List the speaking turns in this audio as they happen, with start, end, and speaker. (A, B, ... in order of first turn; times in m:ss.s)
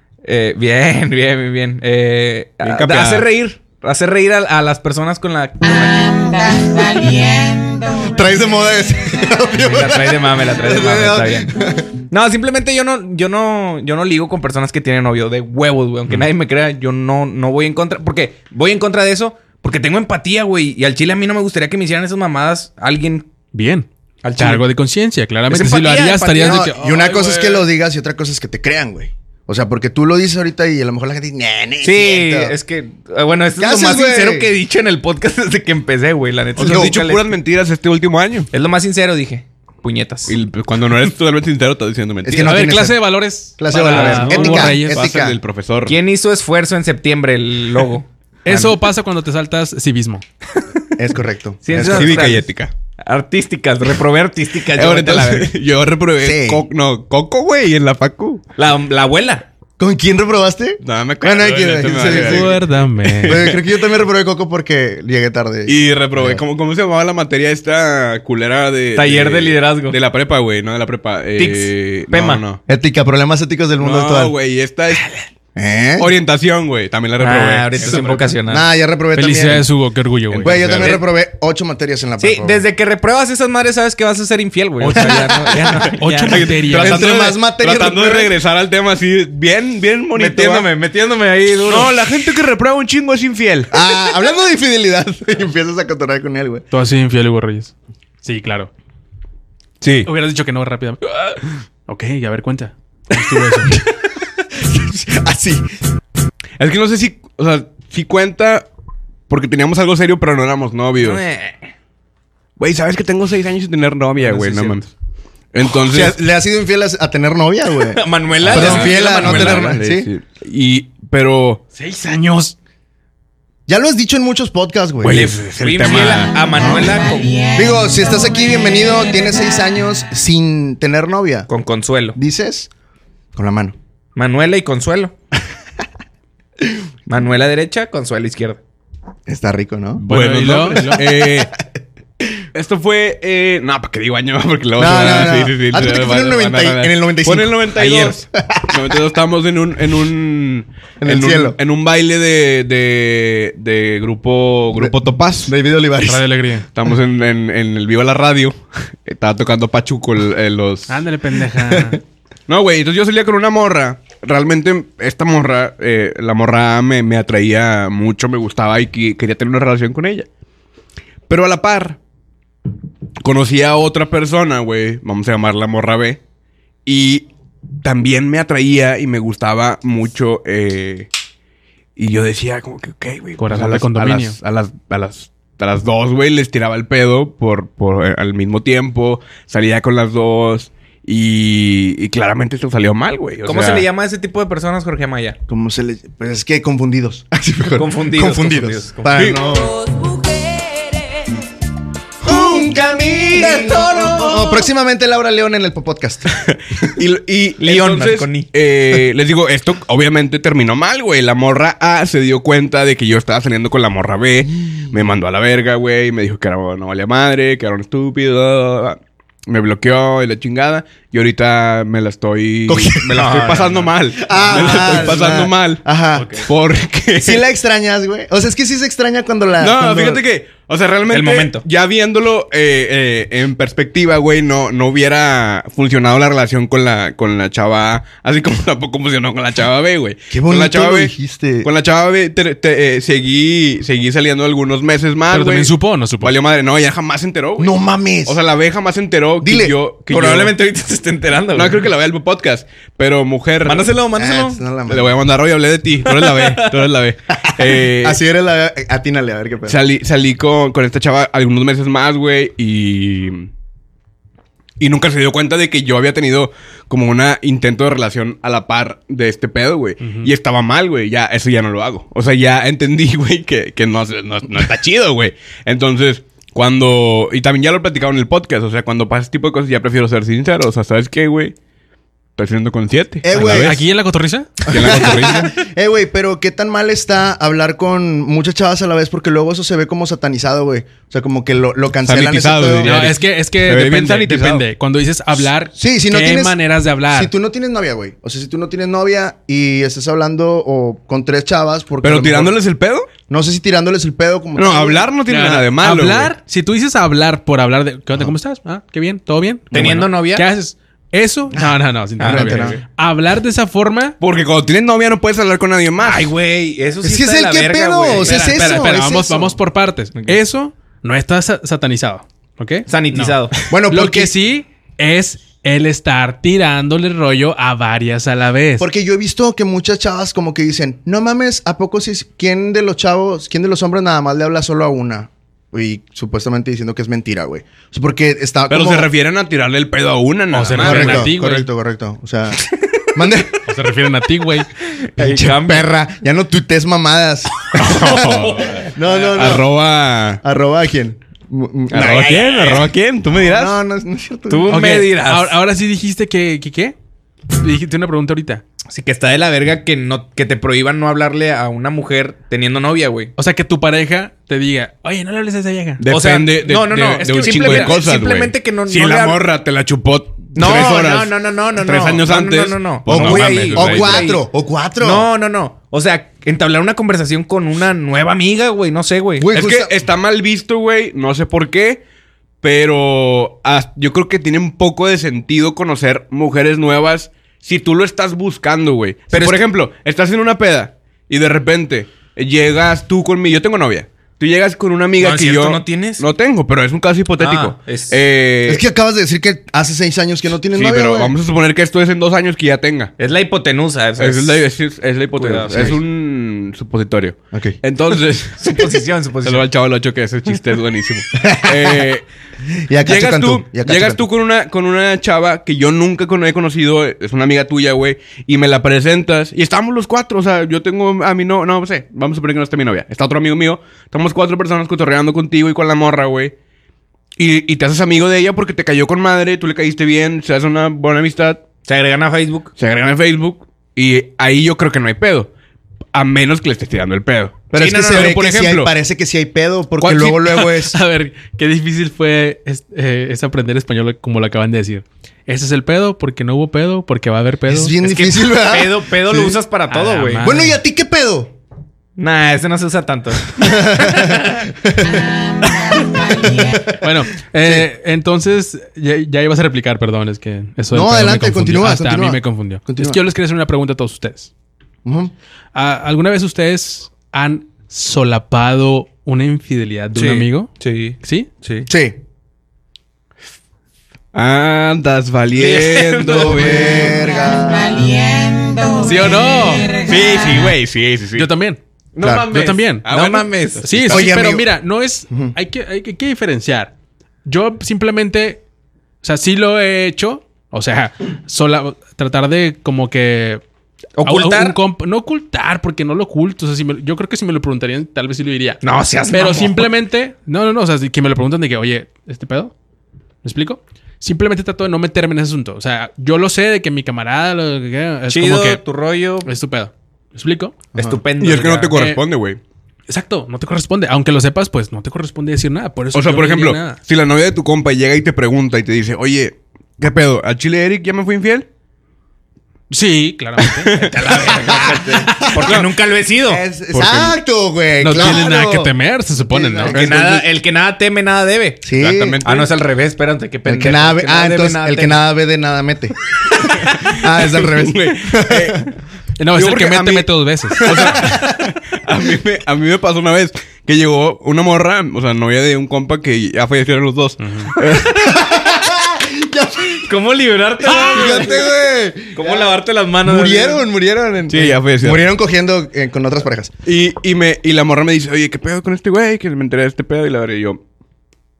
0:00.2-0:06.9 A
0:02.6-0:03.3 B
0:07.9-0:11.9 C
0:09.6-0:11.5 A
0:12.1-0:23.3 A
0:23.5-0:27.6 D
0:24.2-0:24.6 A
0:25.5-0:26.7 A
0:26.4-0:32.5 C
0:31.8-0:37.2 A
0:33.6-0:34.5 C
0:36.6-0:37.0 C
0:36.6-0:38.5 B
0:38.5-0:40.4 A
0:40.3-0:42.6 B
0:42.2-0:43.0 C
0:42.4-0:45.1 D
0:43.6-0:45.4 C
0:43.8-0:44.7 A
0:44.6-0:46.0 B
0:45.9-0:48.1 A
0:48.4-0:50.2 D
0:51.0-0:52.3 C
0:51.6-0:52.5 A
0:51.7-0:52.7 B
0:53.0-0:55.5 A
0:54.7-0:58.4 B
0:56.2-0:56.7 C
0:58.6-0:59.4 A
0:59.8-1:02.6 C
1:00.8-1:03.7 B
1:01.8-1:03.4 D
1:03.2-1:06.4 C
1:05.6-1:12.6 B
1:08.9-1:10.0 A
1:11.4-1:12.4 A
1:12.7-1:14.3 C
1:13.8-1:15.2 B
1:15.5-1:16.1 C
1:16.0-1:18.3 B
1:17.2-1:18.6 A
1:18.5-1:19.7 C
1:19.1-1:20.6 D
1:20.3-1:21.0 B
1:20.4-1:22.6 C
1:22.2-1:26.5 A
1:24.8-1:25.1 B
1:24.9-1:25.9 C
1:26.0-1:27.0 D
1:26.2-1:30.7 B
1:26.8-1:28.3 C
1:30.1-1:31.9 A
1:31.6-1:33.8 B
1:33.7-1:36.6 C
1:36.7-1:38.7 D
1:39.8-1:40.1 B
1:40.0-1:43.8 D
1:43.6-1:44.0 C
1:44.5-1:45.6 C
1:46.6-1:48.7 B
1:49.3-1:51.2 B
1:51.0-1:51.7 A
1:52.6-1:54.9 B
1:54.2-1:54.8 D
1:55.5-1:56.2 B
1:55.8-2:00.1 C
1:57.9-1:59.8 A
1:58.4-2:01.6 B
2:01.8-2:02.5 D
2:03.7-2:05.3 C
2:05.0-2:06.4 B
2:05.1-2:07.4 A
2:06.5-2:06.9 C
2:07.5-2:11.5 C
2:11.5-2:12.2 A
2:12.1-2:12.7 C
2:13.4-2:13.8 C
2:14.2-2:15.1 A
2:17.1-2:18.6 A
2:19.3-2:20.0 C
2:20.0-2:21.5 B
2:20.0-2:21.0 D
2:20.7-2:21.4 C
2:22.5-2:35.5 B
2:24.8-2:29.0 C
2:27.8-2:28.1 A
2:31.0-2:31.6 C
2:34.8-2:36.3 C
2:36.0-2:36.6 D
2:36.8-2:41.0 B
2:40.9-2:42.0 D
2:42.5-2:50.3 B
2:51.3-2:52.0 B
2:53.2-2:56.2 B
2:56.8-2:57.3 B
2:57.8-3:01.1 B
3:02.0-3:13.9 B
3:03.4-3:04.4 D
3:13.4-3:15.4 A
3:15.5-3:19.8 C
3:17.8-3:19.2 A
3:19.1-3:19.4 B
3:19.8-3:21.0 A
3:22.2-3:23.7 B
3:22.5-3:24.6 A
3:23.3-3:26.4 C
3:26.4-3:45.9 B
3:27.6-3:28.5 A
3:42.7-3:43.4 C
3:43.1-3:45.2 A
3:44.2-3:46.4 C
3:46.2-3:46.5 A
3:46.4-3:47.4 B
3:47.2-3:50.2 C
3:49.6-4:01.1 B
3:51.1-3:51.6 A
4:00.3-4:01.7 C
4:01.6-4:07.7 B
4:05.3-4:06.3 D
4:07.6-4:08.4 C
4:08.2-4:10.5 B
4:09.4-4:09.8 C
4:10.1-4:11.8 A
4:11.5-4:13.9 B
4:13.6-4:14.6 A
4:14.1-4:15.2 C
4:14.9-4:18.2 B
4:16.0-4:16.9 A
4:17.4-4:19.8 C
4:19.7-4:23.5 B
4:24.8-4:41.5 B
4:30.0-4:30.3 D
4:42.4-4:43.8 B
4:43.2-4:43.8 C
4:43.4-4:44.6 D
4:44.6-4:53.1 C
4:44.7-4:45.5 B
4:52.0-4:54.6 B
4:52.8-4:57.3 D
4:55.8-4:56.6 C
4:57.1-5:02.6 C
5:02.0-5:03.1 B
5:03.3-5:05.1 C
5:04.6-5:06.3 B
5:05.3-5:14.2 D
5:09.7-5:10.4 A
5:11.5-5:12.8 C
5:12.2-5:12.8 A
5:14.2-5:16.3 B
5:16.0-5:18.8 A
5:17.0-5:19.6 C
5:18.2-5:28.9 D
5:22.9-5:23.5 A
5:23.7-5:24.3 C
5:28.8-5:39.1 C
5:38.7-5:41.3 B
5:40.5-5:41.7 D
5:40.8-5:43.6 C
5:43.6-5:44.7 D
5:44.8-5:45.9 A
5:45.2-5:49.7 C
5:47.7-5:50.4 B
5:48.3-5:49.5 A
5:50.4-5:52.2 C
5:51.9-5:53.8 B
5:51.9-5:52.9 A
5:53.4-5:54.8 C
5:54.5-5:55.5 A
5:54.7-5:56.9 D
5:57.5-5:58.6 D
5:58.9-6:03.3 A
6:03.4-6:06.0 D
6:06.0-6:14.3 B
6:06.1-6:09.4 A
6:07.3-6:08.0 D
6:10.5-6:14.4 A
6:13.1-6:15.3 C
6:15.0-6:19.5 A
6:19.4-6:19.9 C
6:19.5-6:22.0 B
6:22.6-6:38.8 B
6:29.3-6:29.6 A
6:35.2-6:36.2 A
6:37.4-6:38.2 A
6:38.6-6:41.4 C
6:40.7-6:43.1 B
6:43.2-6:44.6 A
6:44.2-6:52.2 B
6:45.3-6:46.0 A
6:47.5-6:47.8 C
6:48.6-6:49.7 A
6:51.4-6:52.1 C
6:52.8-6:54.2 C
6:53.0-7:06.5 B
7:07.4-7:11.6 B
7:11.9-7:12.7 A
7:12.8-7:15.5 B
7:16.1-7:18.9 B
7:17.7-7:21.0 C
7:17.8-7:18.4 A
7:20.0-7:28.0 D
7:27.7-7:29.6 C
7:28.0-7:30.5 A
7:29.9-7:30.8 D
7:30.4-7:31.5 C
7:32.2-7:34.6 A
7:33.6-7:35.2 C
7:36.2-7:37.0 C
7:37.0-7:44.5 D
7:40.9-7:43.2 C
7:45.0-7:45.3 C
7:45.8-7:51.5 D
7:50.1-7:51.9 A
7:51.9-7:52.2 C
7:54.3-7:57.1 B
7:55.6-7:57.0 A
7:56.4-7:58.1 C
7:59.0-7:59.9 D
8:00.0-8:01.5 B
8:01.3-8:01.8 D
8:02.1-8:03.9 A
8:02.2-8:02.5 C
8:02.4-8:03.1 D
8:02.6-8:04.3 B
8:03.8-8:06.9 D
8:04.1-8:04.7 C
8:07.4-8:08.6 D
8:09.2-8:13.6 D
8:14.2-8:14.8 A
8:14.2-8:22.7 D
8:18.8-8:19.9 A
8:23.4-8:28.8 D
8:28.3-8:29.5 A
8:29.4-8:30.8 D
8:30.9-8:31.2 C
8:31.0-8:32.0 A
8:31.4-8:32.6 B
8:31.9-8:32.2 D
8:33.1-8:37.0 D
8:36.1-8:41.7 B
8:42.9-8:44.0 D
8:43.8-8:44.1 B
8:43.9-8:46.6 A
8:44.5-8:45.8 C
8:45.6-8:45.9 B
8:46.5-8:50.2 C
8:48.0-8:49.9 D
8:49.9-8:55.2 A
8:49.9-8:50.4 B
8:51.8-8:52.4 C
8:52.0-8:52.7 B
8:53.6-8:56.1 C
8:56.8-8:58.8 C
8:56.9-8:58.9 B
8:59.4-9:01.1 D
8:59.5-9:08.4 B
9:00.8-9:01.7 C
9:07.4-9:07.7 D
9:08.0-9:10.1 C
9:10.0-9:11.6 A
9:10.8-9:16.7 C
9:12.3-9:13.8 A
9:14.5-9:15.2 B
9:16.8-9:20.8 B